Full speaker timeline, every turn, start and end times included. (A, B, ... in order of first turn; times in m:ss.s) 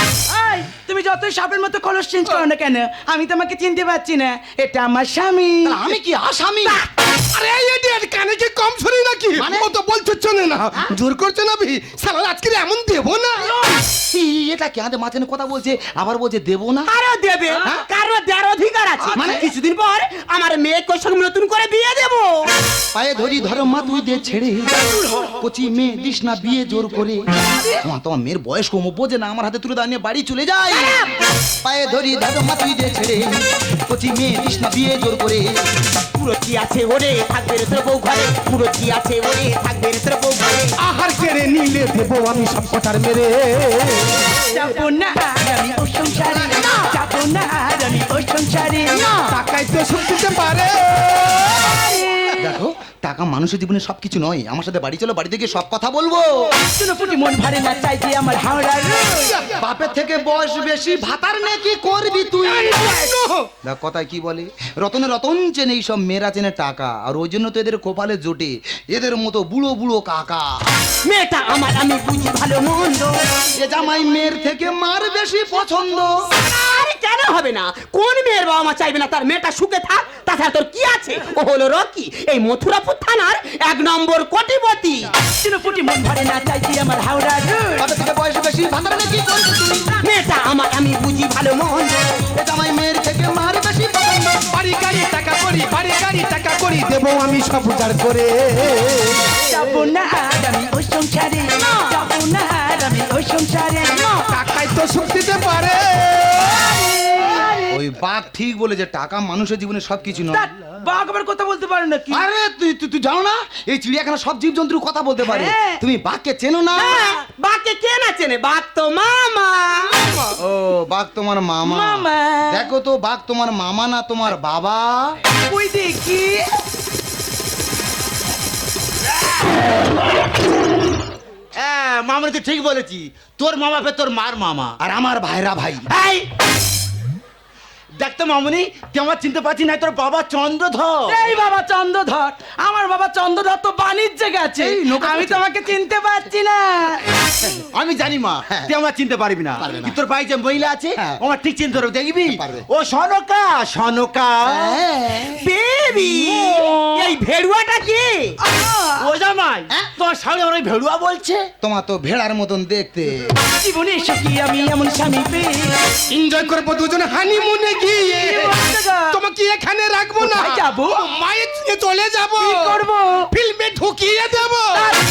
0:00.3-0:05.9 A
0:05.6-0:06.8 B
0:07.3-0:13.6 C
0:09.4-0:09.7 B
0:13.9-0:16.9 B
0:16.9-0:22.5 D
0:19.1-0:19.5 B
0:22.9-0:27.2 B
0:25.0-0:25.3 A
0:27.5-0:27.8 A
0:27.8-0:31.0 B
0:31.6-0:35.5 B
0:36.2-0:40.8 D
0:40.8-0:44.3 C
0:44.4-0:49.1 A
0:48.9-0:49.3 B
0:49.3-0:51.7 C
0:51.5-0:52.4 A
0:52.4-0:56.5 B
0:56.6-0:59.5 A
0:59.6-1:03.0 B
1:02.4-1:03.5 C
1:03.6-1:10.8 B
1:11.0-1:13.2 D
1:13.6-1:16.3 B
1:16.3-1:25.1 D
1:25.4-1:27.9 A
1:27.8-1:29.9 B
1:30.0-1:32.2 D
1:32.4-1:34.5 B
1:34.5-1:39.8 C
1:39.4-1:44.4 A
1:44.3-1:46.6 C
1:46.4-1:47.8 A
1:47.7-1:50.5 B
1:50.3-1:52.3 A
1:52.1-1:57.1 B
1:55.2-1:55.8 A
1:56.7-1:59.9 D
2:00.0-2:00.3 A
2:00.4-2:05.2 B
2:01.6-2:02.6 A
2:05.5-2:06.5 A
2:11.6-2:14.8 E
2:14.8-2:15.9 B
2:15.9-2:16.3 E
2:18.0-2:21.2 E
2:21.1-2:27.1 A
2:24.6-2:25.4 B
2:27.4-2:27.7 B
2:27.7-2:34.8 E
2:28.5-2:28.7 B
2:29.6-2:30.0 B
2:32.3-2:32.7 B
2:34.4-2:35.5 B
2:35.3-2:38.4 D
2:36.2-2:37.1 E
2:38.4-2:39.0 A
2:39.0-2:41.5 E
2:41.6-2:43.3 B
2:43.4-2:45.8 A
2:46.1-2:48.6 C
2:48.2-2:49.2 A
2:49.1-2:52.8 C
2:50.2-2:51.0 A
2:52.4-2:53.3 A
2:53.3-2:54.9 C